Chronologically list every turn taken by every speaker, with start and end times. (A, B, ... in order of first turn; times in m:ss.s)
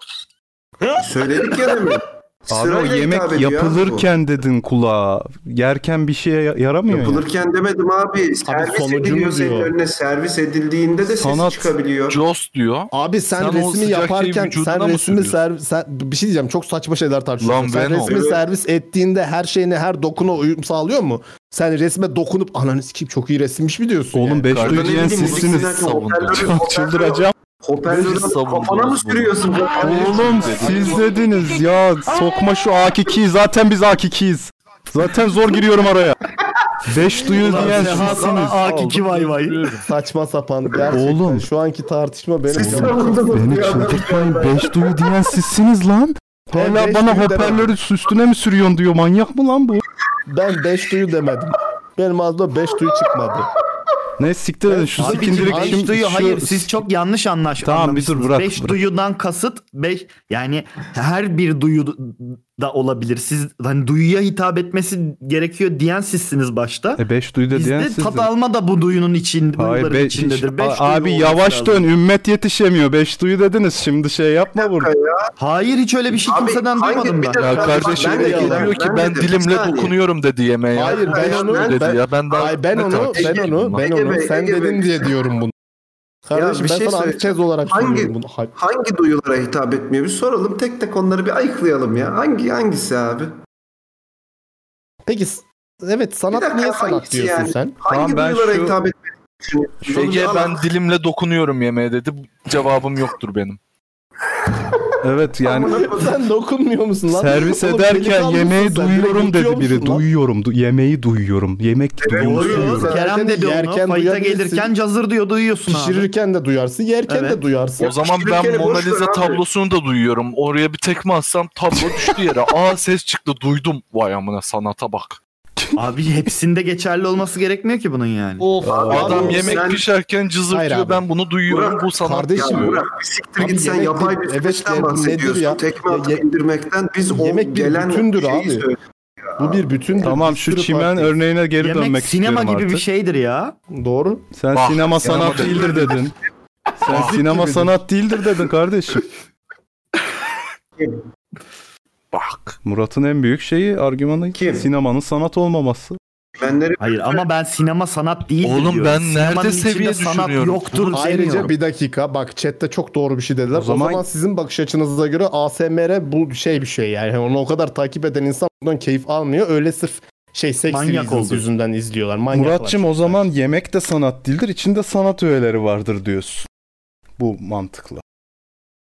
0:01.0-0:04.1 A
0:02.5-0:07.2 B
0:06.9-0:12.2 A
0:08.4-0:09.7 C
0:11.0-0:11.7 B
0:12.1-0:15.4 D
0:12.9-0:24.6 C
0:17.4-0:18.1 D
0:18.0-0:18.4 A
0:24.1-0:27.3 B
0:24.5-0:26.6 D
0:24.6-0:31.0 A
0:27.8-0:31.0 D
0:29.8-0:36.2 B
0:36.8-0:38.6 B
0:37.4-0:39.7 E
0:37.6-0:38.2 C
0:37.6-0:39.8 D
0:39.8-0:43.9 C
0:40.9-0:41.5 B
0:42.5-0:44.8 A
0:42.6-0:49.8 B
0:46.5-0:47.7 C
0:50.3-0:53.5 C
0:54.2-0:56.8 B
0:54.7-0:55.9 C
0:55.0-1:11.9 E
0:57.6-0:58.8 B
1:07.0-1:08.3 B
1:09.6-1:14.9 B
1:14.6-1:15.3 A
1:15.4-1:18.0 E
1:16.2-1:19.9 A
1:17.3-1:23.8 D
1:17.8-1:18.7 C
1:20.7-1:25.5 C
1:20.8-1:25.1 A
1:26.3-1:28.5 C
1:26.3-1:33.3 A
1:35.0-1:37.7 C
1:36.3-1:40.6 A
1:37.9-1:38.8 B
1:39.8-1:43.6 D
1:45.0-1:45.9 B
1:45.4-1:46.2 A
1:45.9-1:50.0 C
1:47.1-1:52.9 B
1:52.0-1:52.9 A
1:52.2-1:56.1 E
1:52.2-1:54.7 C
1:55.6-1:57.9 C
1:57.1-1:57.4 E
1:57.8-2:05.2 D
1:58.0-1:59.4 A
2:05.6-2:05.8 B
2:05.8-2:08.5 E
2:08.4-2:12.8 D
2:08.6-2:09.8 A
2:08.7-2:09.7 C
2:10.5-2:11.0 C
2:11.5-2:18.8 A
2:12.0-2:12.7 C
2:13.4-2:16.2 C
2:17.1-2:18.6 C
2:19.4-2:19.8 A
2:19.4-2:21.1 C
2:20.0-2:22.8 B
2:21.6-2:23.6 E
2:23.7-2:24.3 C
2:24.3-2:26.1 B
2:24.5-2:25.8 D
2:25.0-2:26.0 A
2:26.8-2:29.1 B
2:26.9-2:27.5 D
2:27.3-2:27.6 C
2:30.8-2:31.0 A
2:32.1-2:32.6 D
2:32.6-2:36.0 B
2:34.3-2:34.6 A
2:36.4-2:37.3 A
2:36.8-2:41.5 E
2:38.4-2:41.5 D
2:40.9-2:53.3 C
2:43.5-2:44.0 B
2:50.7-2:51.5 E
2:52.3-2:56.5 B
2:57.2-2:58.0 B